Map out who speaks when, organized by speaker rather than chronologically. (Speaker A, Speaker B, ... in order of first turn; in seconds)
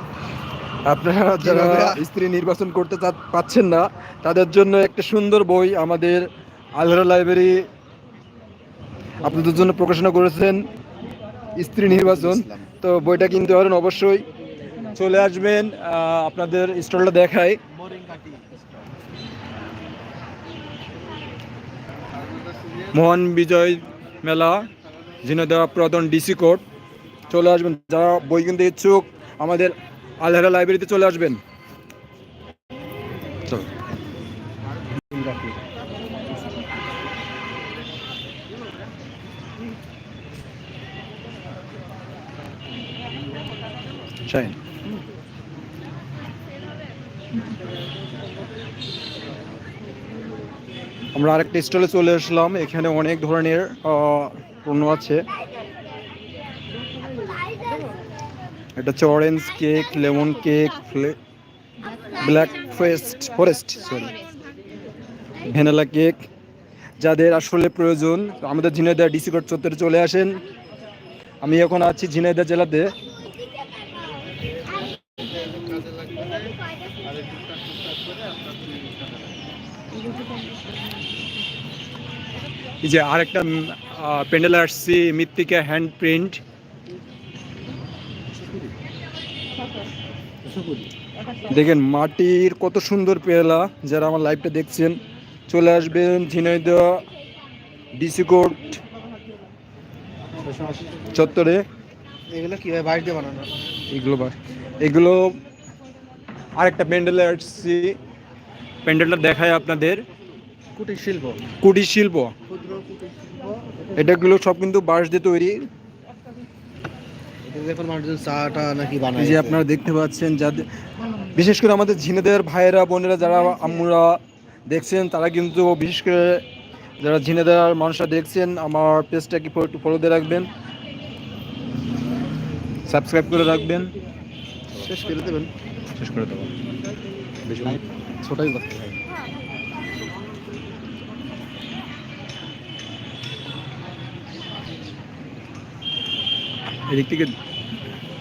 Speaker A: 0.8-7.7, 9.2-10.6, 11.6-14.2, 14.9-17.6, 22.9-24.7, 25.2-26.6, 27.3-31.4, 44.3-44.5, 51.1-55.2, 58.8-61.1, 62.2-64.1, 65.4-66.2, 67.0-70.4, 71.4-72.9, 82.8-86.4, 91.5-97.0, 97.9-98.8, 101.1-101.6, 103.9-105.4, 106.6-108.0, 108.8-110.0, 111.6-112.3, 114.0-115.6, 119.2-120.7, 121.3-126.4, 127.0-130.5, 132.9-133.9, 135.9-136.5, 137.4-137.8, 146.9-147.3
Speaker B: 1.4-2.0, 11.8-12.7, 35.0-35.6, 75.5-76.5, 77.0-79.0, 90.5-90.8, 100.4-101.1, 102.3-103.5, 110.7-111.4, 112.5-113.6, 117.4-119.6, 134.8-135.5, 137.6-139.0